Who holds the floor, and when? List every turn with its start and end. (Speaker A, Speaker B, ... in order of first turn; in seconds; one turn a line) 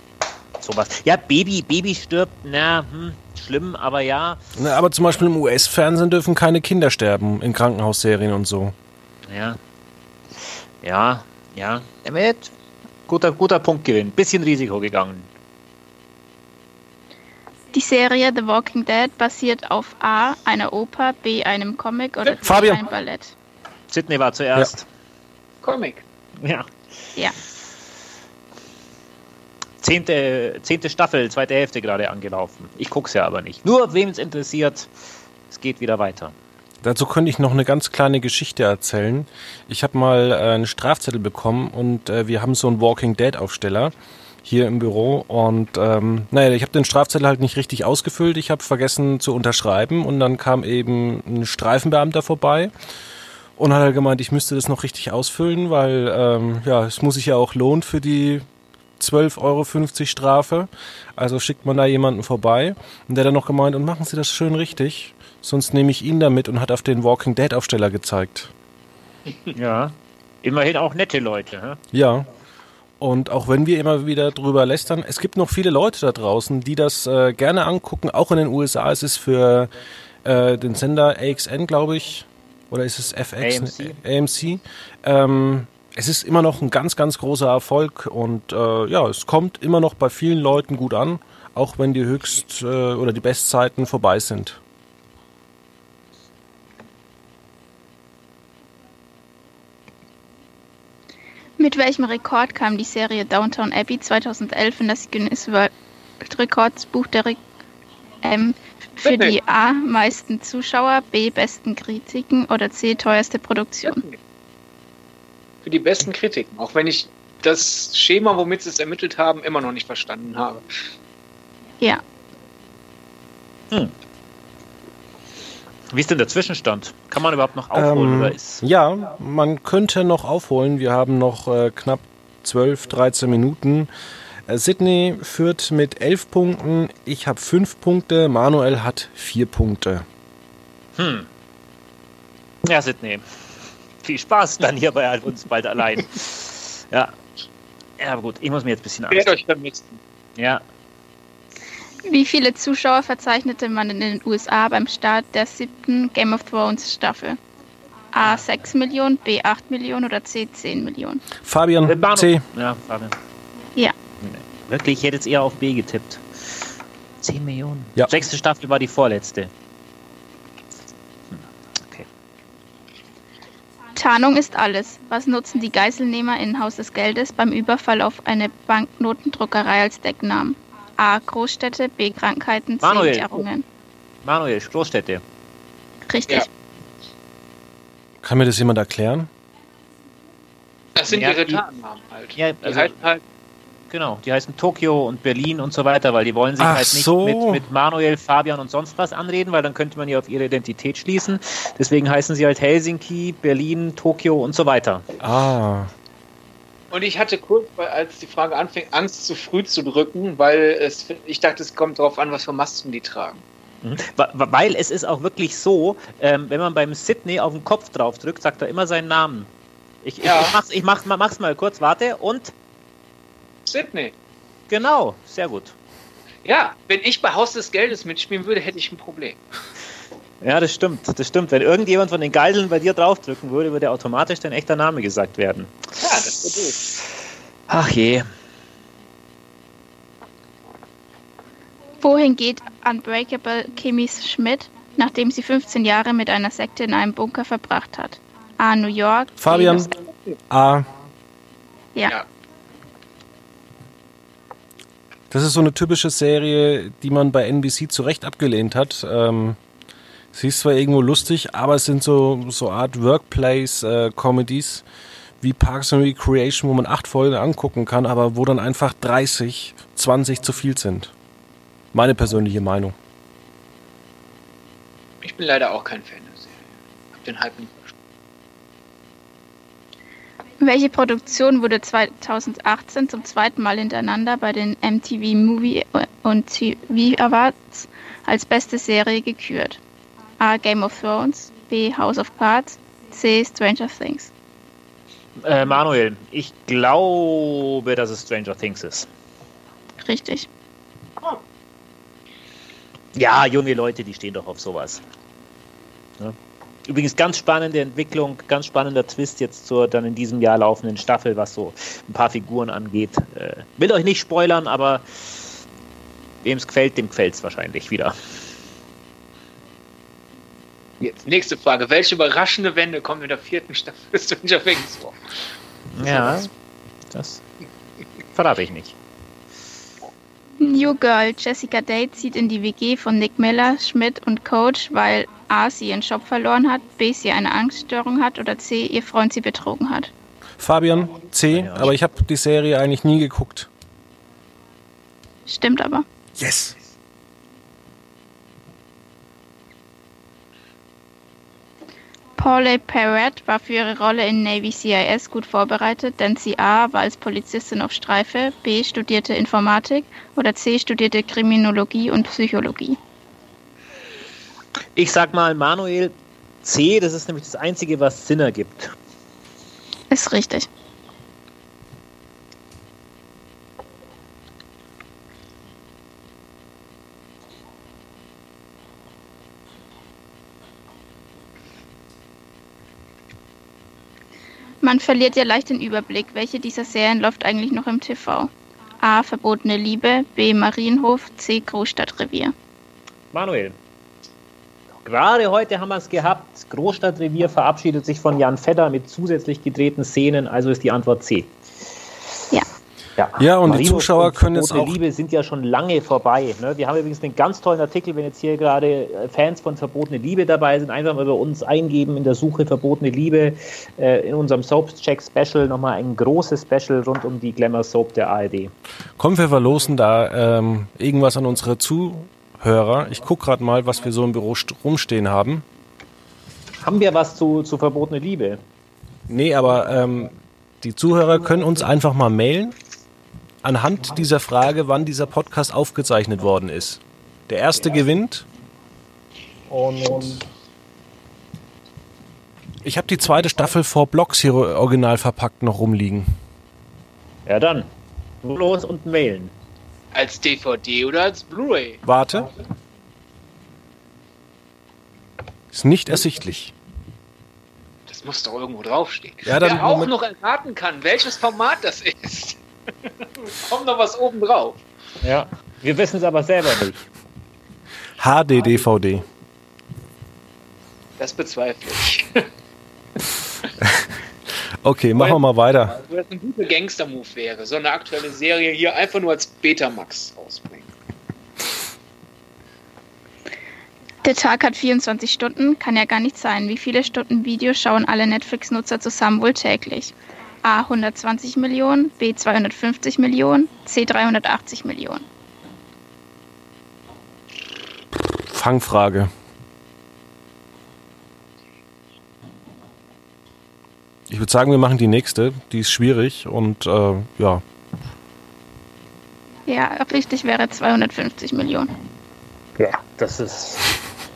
Speaker A: 0.6-4.4
Speaker B: 4.5-8.7
Speaker A: 9.2-9.6
Speaker A: 10.4-12.5
Speaker A: 13.1-15.3
Speaker C: 17.7-23.3
Speaker B: 22.4-22.8
Speaker A: 23.9-24.9
Speaker D: 25.6-26.0
Speaker A: 26.4-26.7
Speaker A: 29.8-34.9
Speaker A: 35.5-36.3
Speaker B: 36.8-43.9
Speaker B: 44.4-52.7
Speaker B: 53.6-58.5
Speaker B: 59.0-68.5
Speaker A: 69.5-71.8
Speaker B: 71.9-72.3
Speaker B: 73.0-79.7
Speaker B: 80.2-94.6
Speaker A: 83.4-84.0
Speaker C: 101.6-107.4
Speaker C: 108.2-114.0
Speaker D: 109.0-109.4
Speaker D: 113.9-114.2
Speaker D: 115.6-120.6
Speaker A: 125.9-128.6
Speaker B: 127.7-133.9
Speaker B: 134.5-140.0
Speaker A: 140.9-141.3
Speaker A: 142.6-143.2
Speaker A: 144.0-147.2
Speaker A: 148.0-149.3
Speaker D: 149.1-150.0
Speaker A: 150.4-150.6
Speaker C: 152.1-157.4
Speaker C: 158.1-161.2
Speaker B: 161.4-162.4
Speaker A: 161.8-163.1
Speaker A: 164.2-166.5
Speaker A: 167.2-169.5
Speaker A: 171.3-172.1
Speaker C: 173.9-183.6
Speaker A: 182.8-183.4
Speaker A: 184.2-185.2
Speaker C: 186.1-186.5
Speaker B: 188.2-189.3
Speaker D: 190.9-193.2
Speaker A: 191.1-191.6
Speaker A: 192.3-192.9
Speaker A: 193.9-205.1
Speaker B: 196.6-197.6
Speaker B: 205.2-205.9
Speaker D: 206.9-213.4
Speaker A: 213.8-219.5
Speaker A: 220.0-222.5
Speaker D: 220.2-220.6
Speaker D: 223.7-224.1
Speaker A: 224.7-225.7
Speaker D: 226.4-229.4
Speaker A: 230.4-237.0
Speaker D: 236.0-236.8
Speaker A: 237.7-238.3
Speaker C: 242.0-249.9
Speaker B: 249.4-249.9
Speaker B: 250.5-250.9
Speaker B: 255.3-259.6
Speaker B: 260.3-264.8
Speaker B: 265.4-271.1
Speaker B: 271.9-272.9
Speaker D: 275.2-276.6
Speaker D: 277.1-277.9
Speaker C: 280.6-289.8
Speaker C: 290.4-294.3
Speaker A: 295.4-299.1
Speaker C: 300.0-300.5
Speaker A: 303.1-305.0
Speaker A: 306.2-315.5
Speaker A: 316.4-318.1
Speaker D: 321.0-325.2
Speaker A: 325.9-326.5
Speaker A: 327.1-327.4
Speaker A: 328.3-328.9
Speaker C: 330.6-340.1
Speaker B: 340.6-343.7
Speaker A: 341.5-341.9
Speaker C: 345.5-346.0
Speaker B: 346.4-346.8
Speaker C: 352.4-363.0
Speaker A: 364.9-368.9
Speaker C: 370.1-370.7
Speaker C: 384.8-392.5
Speaker A: 393.3-393.8
Speaker A: 395.0-401.6
Speaker A: 403.2-418.7
Speaker B: 403.4-405.0
Speaker B: 419.2-425.6
Speaker A: 426.8-428.6
Speaker B: 429.3-432.7
Speaker B: 433.6-438.4
Speaker B: 439.7-440.4
Speaker B: 442.8-446.3
Speaker A: 447.4-447.9
Speaker A: 448.4-449.5
Speaker D: 450.1-452.0
Speaker B: 452.0-452.5
Speaker B: 455.7-456.7
Speaker D: 458.1-462.6
Speaker B: 459.4-460.1
Speaker D: 463.2-464.8
Speaker A: 465.2-467.1
Speaker B: 468.2-469.2
Speaker D: 471.2-472.4
Speaker B: 474.8-476.0
Speaker D: 475.9-480.9
Speaker C: 484.2-495.2
Speaker B: 498.4-499.3
Speaker B: 504.3-507.6
Speaker C: 509.7-511.9
Speaker A: 512.8-513.9